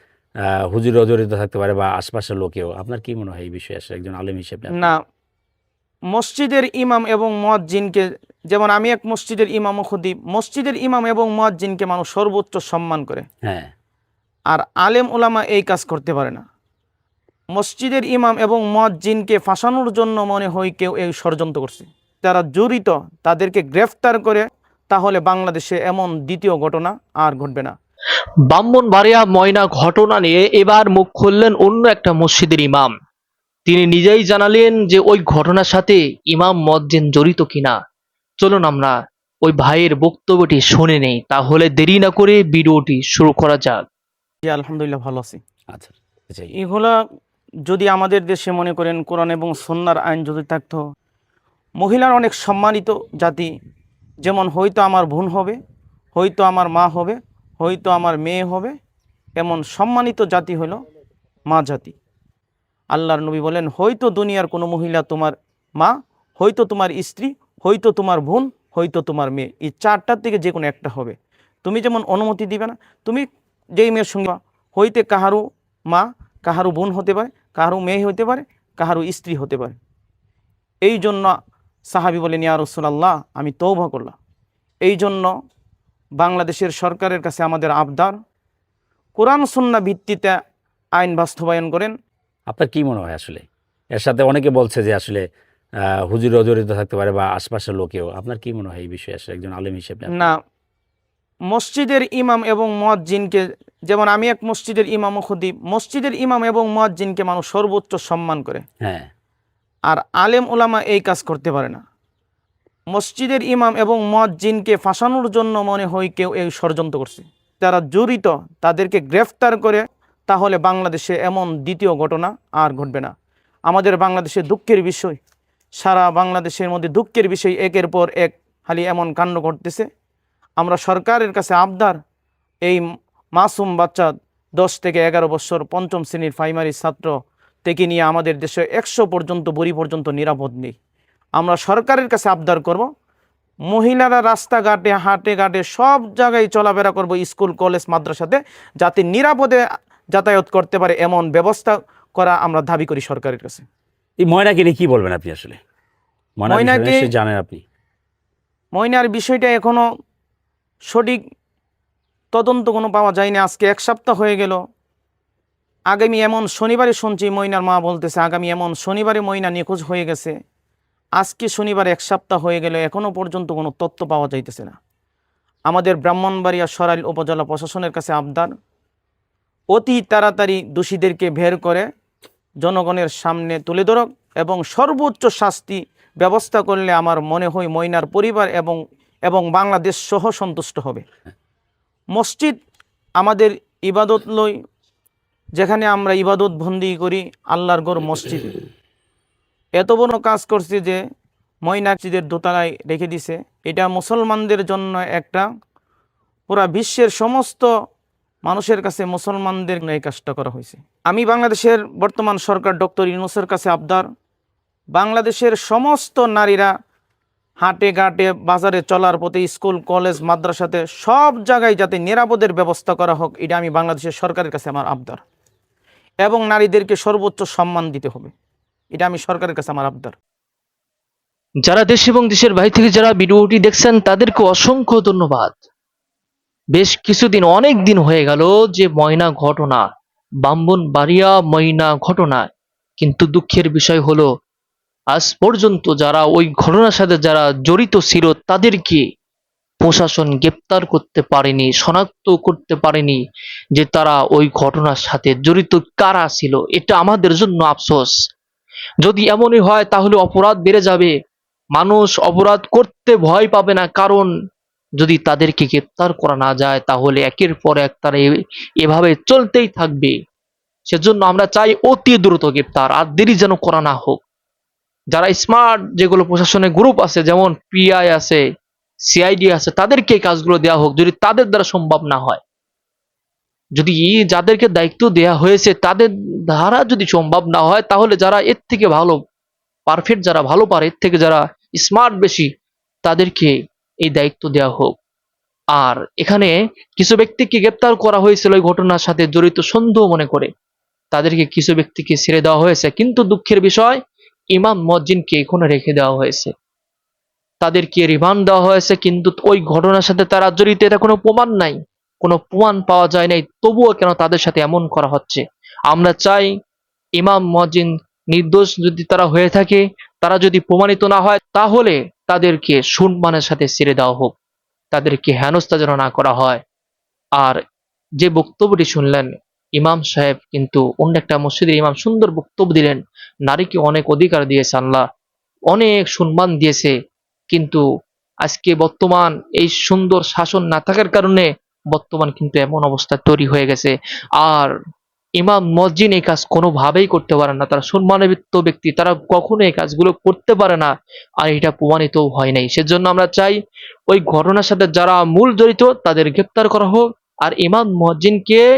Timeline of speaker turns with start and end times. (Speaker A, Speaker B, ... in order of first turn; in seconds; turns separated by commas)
Speaker A: 0.7-4.9, Speaker B: 6.1-13.2, Speaker A: 13.4-13.7, Speaker B: 14.5-16.4, Speaker B: 17.5-27.8, Speaker C: 28.5-32.9, Speaker C: 33.7-37.8, Speaker C: 38.4-43.8, Speaker B: 44.4-45.4, Speaker A: 45.7-46.5, Speaker B: 46.5-47.0, Speaker B: 47.7-50.8, Speaker B: 51.8-53.5, Speaker B: 54.2-55.6, Speaker B: 56.1-58.8, Speaker B: 59.4-60.8, Speaker B: 61.5-61.9, Speaker B: 62.9-79.8, Speaker B: 80.8-81.3, Speaker B: 81.9-84.2, Speaker B: 84.8-85.3, Speaker B: 86.2-88.2, Speaker B: 89.2-90.4, Speaker B: 91.0-91.9, Speaker A: 92.5-95.2, Speaker A: 96.0-100.3, Speaker B: 101.5-108.6, Speaker A: 108.8-109.1, Speaker B: 109.9-111.8, Speaker B: 112.9-123.1, Speaker B: 123.7-125.2, Speaker B: 125.8-129.9, Speaker B: 130.6-132.0, Speaker B: 133.3-140.8, Speaker B: 141.3-142.9, Speaker B: 143.7-153.6, Speaker A: 154.2-155.6, Speaker A: 156.4-157.6, Speaker B: 156.5-157.1, Speaker B: 158.7-159.8, Speaker B: 160.8-161.2, Speaker B: 162.3-164.6, Speaker B: 165.9-170.3, Speaker B: 171.2-174.8, Speaker B: 175.7-178.5, Speaker B: 179.7-181.9, Speaker B: 182.6-191.0, Speaker B: 192.1-192.6, Speaker B: 193.2-194.5, Speaker B: 195.6-198.6, Speaker B: 199.8-201.0, Speaker B: 201.6-205.4, Speaker B: 206.5-207.7, Speaker B: 208.4-214.1, Speaker B: 214.9-216.7, Speaker B: 217.6-225.2, Speaker B: 226.2-228.3, Speaker B: 228.9-230.2, Speaker C: 231.7-235.6, Speaker C: 236.8-239.9, Speaker C: 240.4-242.5, Speaker C: 243.0-244.3, Speaker C: 245.1-249.0, Speaker C: 249.8-253.2, Speaker C: 253.8-258.1, Speaker C: 259.0-261.1, Speaker C: 261.8-264.3, Speaker C: 265.0-270.1, Speaker C: 270.9-274.2, Speaker C: 275.1-278.4, Speaker C: 279.1-282.4, Speaker C: 283.8-289.2, Speaker C: 289.9-292.5, Speaker C: 293.0-293.5, Speaker C: 294.0-295.0, Speaker C: 295.7-300.5, Speaker C: 301.1-304.0, Speaker C: 304.5-306.5, Speaker C: 307.6-316.5, Speaker C: 317.2-324.3, Speaker C: 324.9-326.6, Speaker C: 328.2-335.0, Speaker C: 335.7-336.9, Speaker C: 337.5-337.8, Speaker C: 338.4-344.7, Speaker C: 345.4-353.6, Speaker C: 354.1-358.6